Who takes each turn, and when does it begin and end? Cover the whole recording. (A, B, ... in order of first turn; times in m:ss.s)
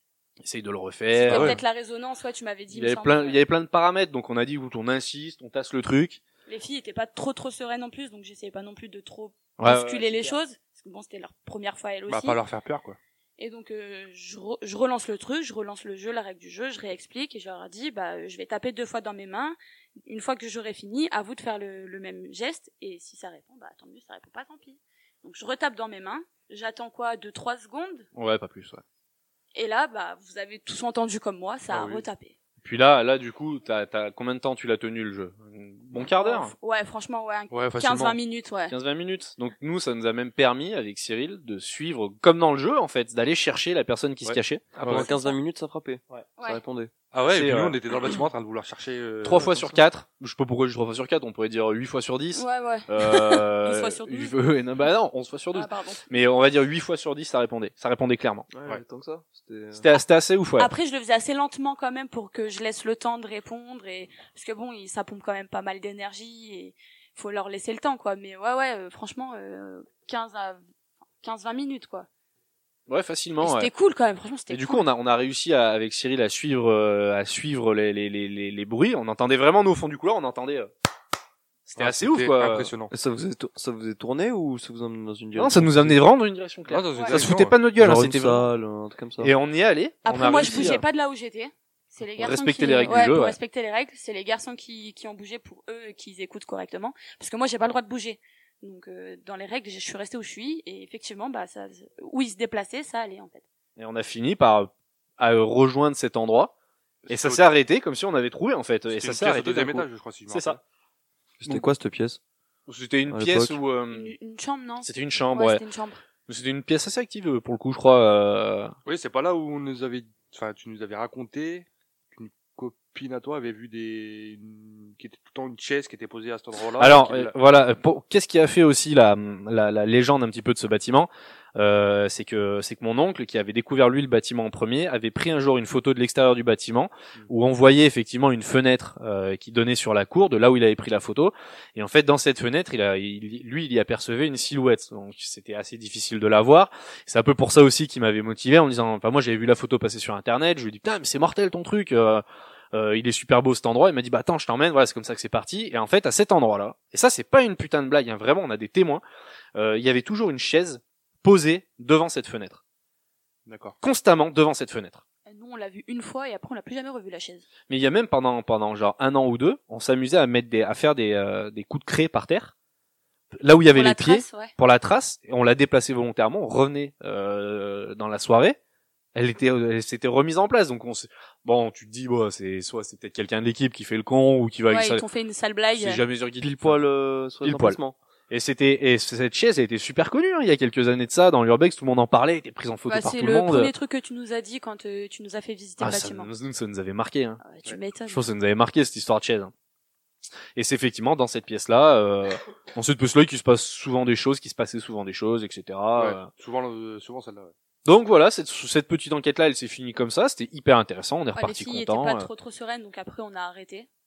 0:00.4-0:01.6 A
0:01.1-0:03.4 B
0:01.3-0:01.6 C
0:02.7-0:06.2 A
0:06.5-0:12.4 B
0:09.6-0:10.3 A
0:12.1-0:13.0 C
0:13.4-0:28.1 B
0:28.2-0:28.8 A
0:29.5-0:32.3 B
0:31.7-0:32.0 C
0:32.6-0:36.5 A
0:36.0-0:38.7 B
0:37.5-0:38.2 C
0:38.7-0:44.8 A
0:44.2-0:45.1 C
0:44.8-0:46.9 D
0:45.1-0:45.3 B
0:47.1-0:49.7 C
0:47.3-0:47.8 A
0:49.2-0:58.5 A
0:52.3-0:54.4 B
0:55.5-0:56.1 B
0:58.5-0:59.8 D
0:59.7-1:00.7 A
1:00.6-1:10.6 B
1:11.2-1:12.1 B
1:12.9-1:13.7 A
1:13.4-1:14.8 B
1:14.5-1:20.7 A
1:21.6-1:22.7 A
1:21.8-1:22.9 C
1:22.9-1:26.0 D
1:25.4-1:28.5 A
1:26.7-1:27.5 C
1:27.8-1:29.3 D
1:29.2-1:30.8 A
1:30.0-1:43.4 B
1:32.2-1:33.4 A
1:43.8-1:46.5 A
1:47.0-1:47.4 C
1:47.1-1:50.6 A
1:48.9-1:50.6 C
1:51.4-1:52.2 D
1:52.7-1:54.1 A
1:53.1-1:53.6 D
1:53.9-1:56.0 B
1:54.8-1:55.6 A
1:56.3-1:58.7 A
1:58.8-2:07.3 C
2:06.8-2:39.0 A
2:39.5-2:42.6 A
2:43.5-2:43.8 C
2:43.8-2:45.0 A
2:45.2-2:47.4 B
2:47.7-2:52.5 A
2:53.4-2:58.6 A
2:53.7-2:54.5 B
2:59.1-3:05.0 A
3:04.7-3:06.0 B
3:05.8-3:06.8 A
3:06.4-3:08.0 D
3:07.4-3:07.8 A
3:08.3-3:13.7 A
3:12.9-3:16.3 B
3:15.8-3:17.4 A
3:17.4-3:18.2 B
3:18.1-3:19.5 A
3:20.6-3:26.3 A
3:26.0-3:27.5 C
3:27.8-3:32.3 A
3:31.4-3:33.9 B